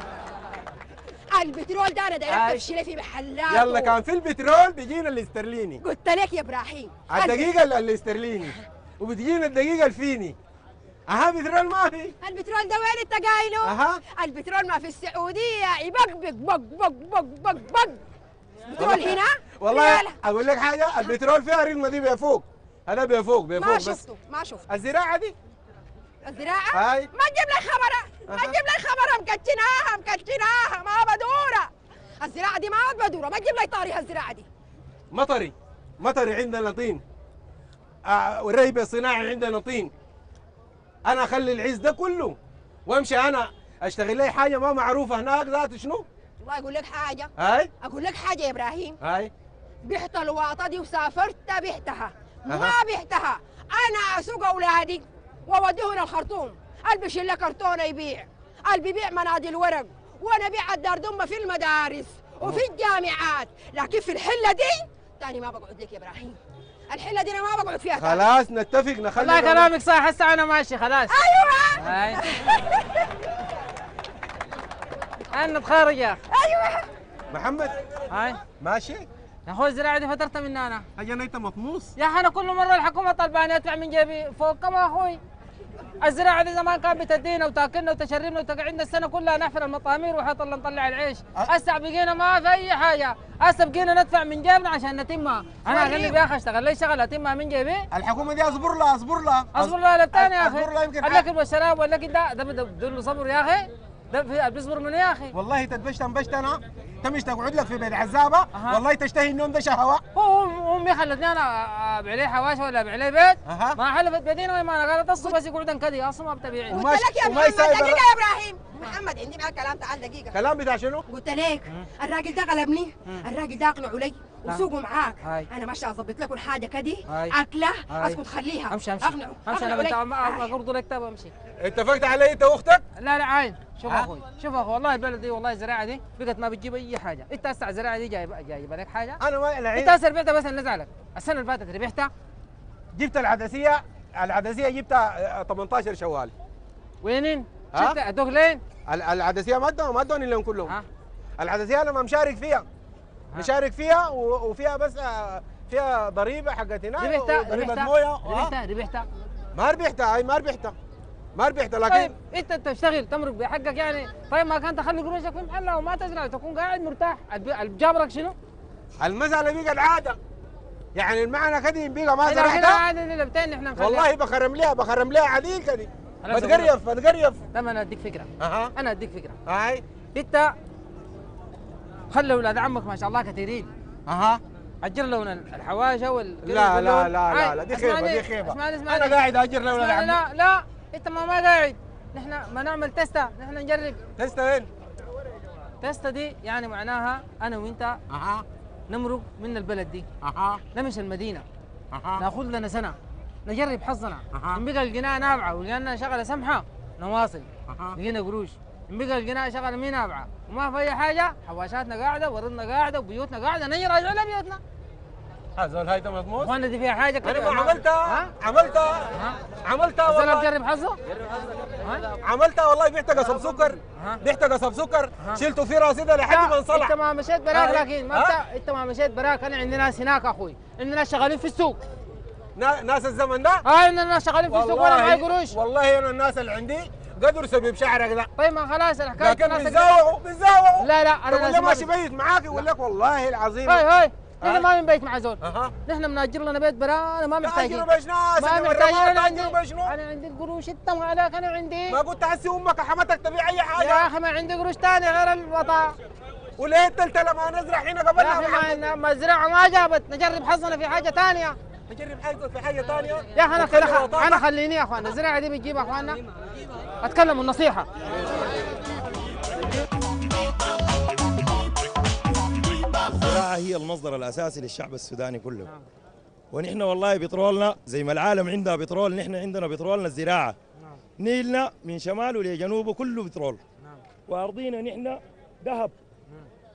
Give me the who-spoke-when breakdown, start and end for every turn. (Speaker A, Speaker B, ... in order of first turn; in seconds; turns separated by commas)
Speaker A: 1.3-4.0, Speaker B: 2.3-2.6, Speaker B: 3.5-5.8, Speaker A: 5.8-7.5, Speaker B: 7.1-10.3, Speaker B: 11.1-12.2, Speaker A: 12.2-18.0, Speaker B: 13.6-14.0, Speaker A: 18.7-20.2, Speaker B: 18.8-24.0, Speaker A: 23.5-24.6, Speaker B: 24.7-25.3, Speaker A: 26.2-31.7, Speaker B: 26.7-27.1, Speaker B: 28.3-28.6, Speaker A: 32.2-34.5, Speaker B: 35.1-37.0, Speaker B: 38.1-39.9, Speaker B: 41.0-42.4, Speaker B: 42.9-46.0, Speaker A: 46.4-47.3, Speaker B: 47.4-47.7, Speaker A: 47.8-49.0, Speaker B: 49.0-49.3, Speaker A: 49.8-68.3, Speaker B: 52.5-52.8, Speaker B: 68.0-69.7, Speaker C: 69.2-71.1, Speaker A: 71.1-73.1, Speaker C: 71.8-72.2, Speaker C: 75.3-76.2, Speaker A: 76.3-76.9, Speaker B: 77.3-77.8, Speaker C: 78.1-78.4, Speaker B: 78.6-79.1, Speaker C: 79.5-80.9, Speaker B: 81.0-81.9, Speaker C: 82.0-85.2, Speaker C: 86.0-97.8, Speaker A: 95.8-96.1, Speaker B: 97.9-101.3, Speaker C: 99.5-105.3, Speaker B: 105.3-110.0, Speaker C: 108.5-108.8, Speaker C: 110.2-116.8, Speaker B: 113.5-113.8, Speaker A: 116.7-120.3, Speaker B: 116.7-118.0, Speaker B: 120.3-121.0, Speaker A: 121.1-130.5, Speaker C: 125.2-125.5, Speaker C: 127.1-127.4, Speaker C: 127.9-131.3, Speaker B: 131.6-132.8, Speaker C: 133.0-139.2, Speaker B: 139.2-140.0, Speaker C: 139.8-142.1, Speaker B: 142.9-146.3, Speaker C: 147.0-148.6, Speaker B: 148.9-150.8, Speaker B: 151.4-152.7, Speaker B: 153.3-158.5, Speaker C: 157.0-159.1, Speaker B: 159.6-160.8, Speaker B: 161.4-162.1, Speaker C: 161.9-168.3, Speaker B: 169.0-170.2, Speaker B: 171.0-172.8, Speaker C: 172.2-174.1, Speaker B: 173.8-177.4, Speaker C: 176.2-176.7, Speaker C: 177.5-179.4, Speaker B: 178.4-178.7, Speaker B: 179.5-179.8, Speaker C: 180.2-180.5, Speaker C: 182.1-183.7, Speaker B: 184.1-184.4, Speaker C: 184.8-194.0, Speaker B: 186.4-190.2, Speaker B: 194.2-194.7, Speaker C: 195.8-198.0, Speaker B: 198.1-198.4, Speaker C: 198.9-200.1, Speaker B: 200.2-200.6, Speaker C: 200.7-201.4, Speaker B: 201.9-202.2, Speaker C: 202.2-214.6, Speaker B: 204.3-204.6, Speaker B: 207.7-208.0, Speaker B: 215.6-216.5, Speaker C: 216.4-218.3, Speaker B: 217.2-219.1, Speaker B: 219.6-220.5, Speaker C: 220.1-221.0, Speaker C: 221.8-222.1, Speaker B: 222.2-226.9, Speaker C: 223.2-224.2, Speaker C: 226.3-231.8, Speaker B: 227.5-228.4, Speaker B: 232.6-233.6, Speaker C: 233.7-235.6, Speaker B: 234.5-238.3, Speaker C: 238.4-239.9, Speaker B: 239.2-243.8, Speaker C: 240.8-241.9, Speaker C: 243.7-247.9, Speaker B: 245.4-245.7, Speaker B: 247.4-249.9, Speaker C: 248.4-252.0, Speaker B: 251.9-254.1, Speaker C: 253.8-255.9, Speaker B: 256.6-258.8, Speaker C: 258.2-261.6, Speaker B: 261.9-264.4, Speaker C: 263.4-266.2, Speaker C: 267.0-267.9, Speaker D: 273.1-275.7, Speaker D: 276.5-280.6, Speaker D: 281.2-283.6, Speaker D: 284.3-285.9